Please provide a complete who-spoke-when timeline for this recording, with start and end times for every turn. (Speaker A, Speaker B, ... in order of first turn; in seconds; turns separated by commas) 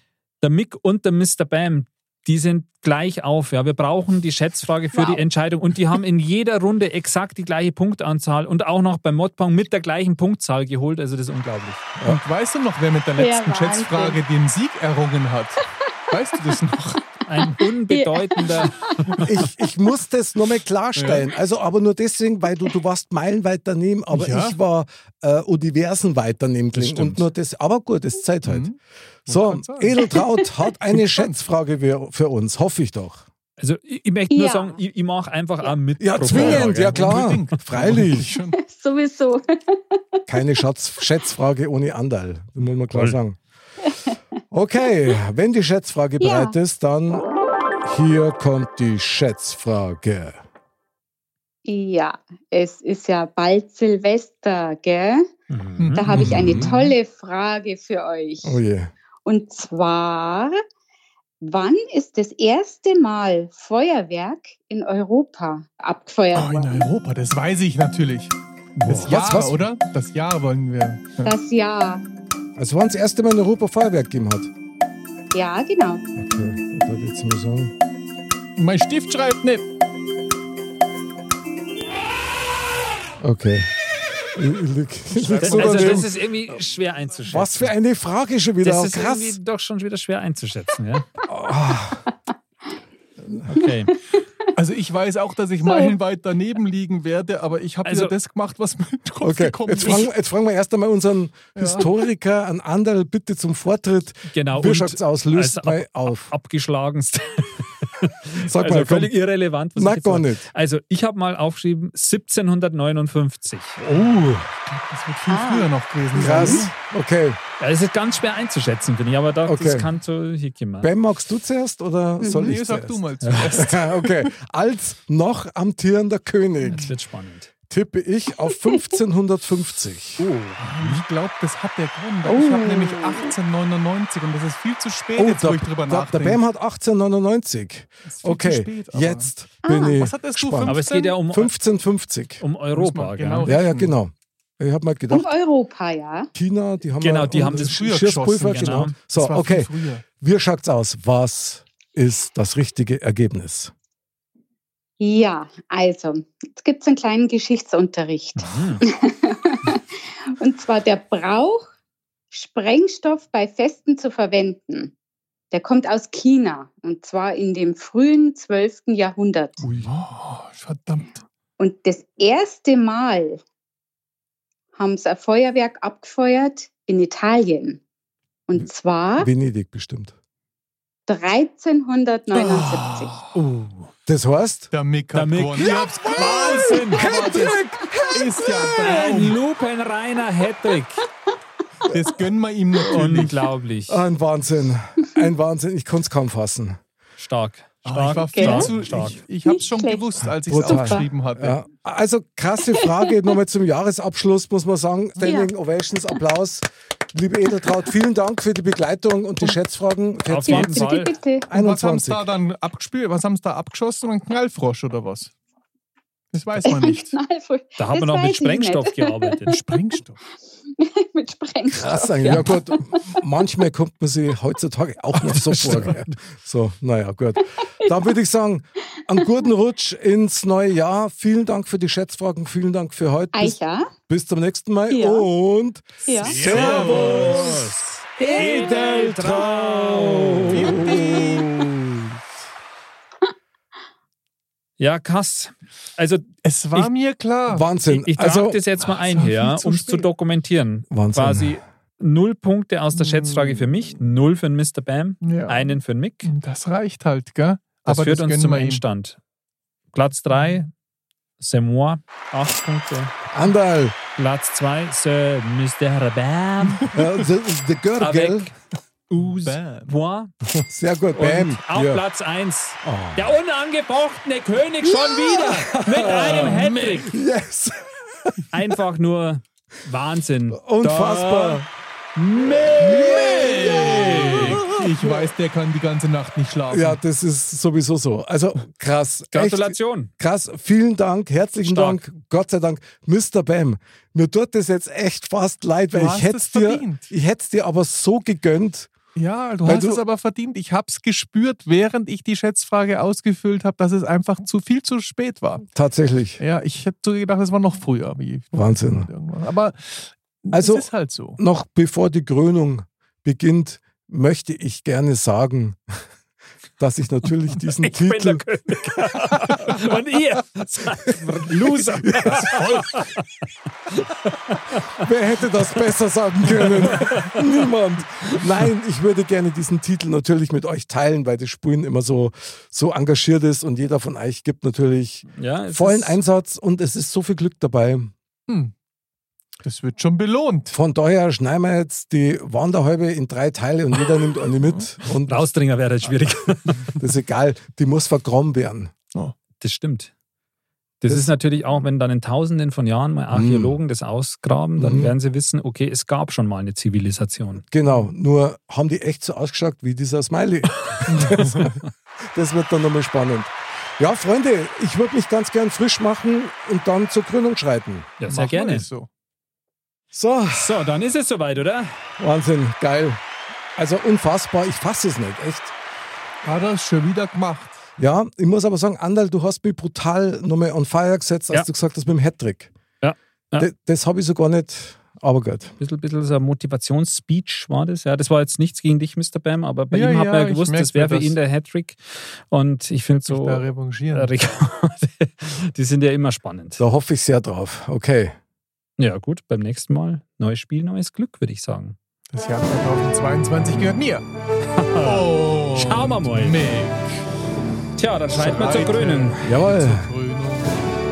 Speaker A: 0.4-11.9, Speaker B: 4.9-5.2, Speaker C: 12.1-17.1, Speaker B: 13.2-14.2, Speaker A: 17.3-19.3, Speaker B: 17.4-19.2, Speaker D: 19.2-28.7, Speaker C: 21.0-21.3, Speaker C: 24.1-24.6, Speaker A: 26.7-27.3, Speaker C: 28.4-28.8, Speaker C: 29.3-30.2, Speaker D: 29.3-33.2, Speaker B: 30.0-30.5, Speaker C: 30.9-31.4, Speaker A: 33.6-37.1, Speaker B: 34.3-34.8, Speaker D: 36.0-38.3, Speaker C: 36.2-38.6, Speaker B: 38.5-40.0, Speaker D: 40.3-43.4, Speaker A: 42.9-43.2, Speaker B: 43.9-44.2, Speaker D: 44.5-47.3, Speaker B: 46.2-46.5, Speaker D: 47.8-50.4, Speaker B: 51.6-55.3, Speaker A: 55.5-56.4, Speaker C: 55.8-57.0, Speaker B: 55.9-58.6, Speaker D: 56.1-56.7, Speaker D: 58.4-58.9, Speaker B: 59.2-60.6, Speaker B: 61.4-66.8, Speaker C: 66.3-68.3, Speaker A: 68.8-69.3, Speaker D: 68.9-69.7, Speaker C: 68.9-71.3, Speaker B: 71.2-72.0, Speaker D: 72.6-74.5, Speaker B: 75.3-76.0, Speaker D: 76.2-77.7, Speaker C: 78.6-79.6, Speaker D: 83.2-83.7, Speaker D: 84.3-86.1, Speaker C: 85.1-86.1, Speaker A: 85.4-87.7, Speaker D: 87.3-89.4, Speaker A: 88.6-91.1, Speaker D: 91.3-92.1, Speaker D: 93.2-93.5, Speaker A: 93.5-94.0, Speaker C: 94.5-100.1, Speaker B: 95.7-95.9, Speaker A: 97.8-98.2, Speaker D: 99.2-106.3, Speaker C: 101.5-101.9, Speaker A: 104.3-113.9, Speaker D: 108.4-109.1, Speaker D: 109.8-110.5, Speaker D: 113.8-114.5, Speaker C: 114.7-116.7, Speaker B: 115.3-115.7, Speaker D: 116.2-117.4, Speaker A: 117.6-120.9, Speaker D: 119.5-119.9, Speaker D: 120.8-126.9, Speaker B: 122.2-122.5, Speaker C: 122.3-124.3, Speaker A: 123.2-123.5, Speaker A: 126.7-127.5, Speaker D: 127.7-130.3, Speaker B: 128.5-128.9, Speaker A: 130.2-131.0, Speaker C: 130.6-136.4, Speaker B: 132.3-133.3, Speaker D: 135.2-142.4, Speaker C: 138.1-141.2, Speaker B: 139.6-140.1, Speaker A: 140.6-141.5, Speaker A: 142.4-143.5, Speaker C: 142.8-143.9, Speaker D: 143.4-145.3, Speaker B: 145.1-146.3, Speaker D: 146.3-153.7, Speaker A: 147.0-148.9, Speaker C: 147.3-150.0, Speaker B: 155.0-161.7, Speaker A: 158.4-158.8, Speaker B: 162.3-164.9, Speaker B: 165.5-169.6, Speaker C: 169.6-171.2, Speaker B: 171.6-173.4, Speaker B: 174.8-177.8, Speaker B: 178.5-179.3, Speaker D: 179.2-180.1, Speaker B: 181.1-183.2, Speaker C: 182.3-183.3, Speaker A: 183.3-183.9, Speaker D: 184.1-184.7, Speaker C: 184.7-187.2, Speaker A: 185.1-187.5, Speaker D: 185.6-188.4, Speaker B: 187.1-187.4, Speaker C: 188.1-189.4, Speaker A: 188.7-191.1, Speaker C: 191.9-193.4, Speaker A: 192.8-194.0, Speaker D: 193.9-196.8, Speaker A: 197.2-199.2, Speaker C: 197.8-201.6, Speaker B: 198.3-198.7, Speaker B: 199.5-201.1, Speaker D: 200.5-210.9, Speaker B: 202.7-203.1, Speaker B: 205.2-205.5, Speaker A: 210.2-211.2, Speaker B: 210.4-211.5, Speaker D: 211.5-212.3, Speaker C: 211.5-215.3, Speaker C: 216.3-217.2, Speaker B: 216.6-219.5, Speaker A: 217.8-219.6, Speaker C: 219.5-220.2, Speaker B: 220.7-223.2, Speaker D: 221.7-233.6, Speaker C: 225.4-225.9, Speaker A: 225.5-226.0, Speaker B: 233.3-233.9, Speaker D: 234.1-242.1, Speaker B: 234.9-235.3, Speaker B: 236.1-236.4, Speaker C: 236.1-237.6, Speaker A: 236.4-241.0, Speaker B: 238.2-238.7, Speaker C: 240.5-241.6, Speaker A: 244.8-246.9, Speaker C: 246.4-247.7, Speaker D: 247.5-248.6, Speaker A: 247.8-256.3, Speaker C: 248.8-250.1, Speaker D: 250.9-251.6, Speaker C: 253.0-253.7, Speaker C: 255.2-255.7, Speaker C: 256.2-258.8, Speaker A: 257.9-259.2, Speaker A: 259.9-260.7, Speaker A: 261.4-263.1, Speaker D: 263.3-264.0, Speaker A: 264.2-266.9, Speaker C: 266.7-267.1, Speaker D: 266.9-268.5, Speaker A: 268.0-268.5, Speaker A: 269.1-270.3, Speaker C: 269.2-269.9, Speaker D: 270.4-272.0, Speaker A: 271.1-277.1, Speaker D: 272.8-273.4, Speaker D: 274.8-278.4, Speaker A: 278.5-281.6, Speaker D: 280.5-281.6, Speaker A: 282.2-284.6, Speaker D: 282.4-285.3, Speaker C: 282.8-287.0, Speaker D: 286.7-298.9, Speaker A: 289.3-290.1, Speaker A: 291.6-292.0, Speaker C: 295.9-297.1, Speaker C: 299.1-305.6, Speaker D: 299.6-300.0, Speaker D: 305.7-306.4, Speaker C: 306.4-311.4, Speaker D: 308.5-309.1, Speaker D: 310.5-310.9, Speaker D: 311.4-315.8, Speaker D: 316.8-318.5, Speaker A: 317.8-323.3, Speaker D: 319.3-319.9, Speaker D: 321.1-323.1, Speaker A: 323.9-325.1, Speaker D: 324.9-338.1, Speaker A: 326.7-327.5, Speaker A: 335.3-336.2, Speaker C: 338.5-338.7, Speaker C: 339.6-340.8, Speaker D: 340.7-345.5, Speaker C: 344.6-344.9, Speaker A: 345.3-347.0, Speaker D: 347.0-348.9, Speaker A: 349.6-350.1, Speaker A: 351.0-357.6, Speaker D: 353.3-353.8, Speaker D: 354.8-355.1, Speaker D: 357.7-361.8, Speaker A: 360.9-361.9, Speaker C: 361.1-361.6, Speaker D: 362.3-368.1, Speaker A: 368.2-368.9, Speaker C: 368.3-369.1, Speaker D: 370.1-370.8, Speaker A: 370.5-372.0, Speaker D: 372.2-373.2, Speaker D: 373.8-375.7, Speaker C: 376.4-377.8, Speaker D: 378.0-382.7, Speaker A: 383.0-383.7, Speaker D: 383.6-385.8, Speaker A: 385.8-396.8, Speaker C: 389.9-391.4, Speaker C: 393.3-394.3, Speaker D: 396.8-398.4, Speaker A: 399.0-402.0, Speaker C: 402.3-404.2, Speaker A: 404.8-406.6, Speaker C: 405.0-407.2, Speaker A: 408.0-409.4, Speaker C: 408.3-410.9, Speaker D: 409.4-410.1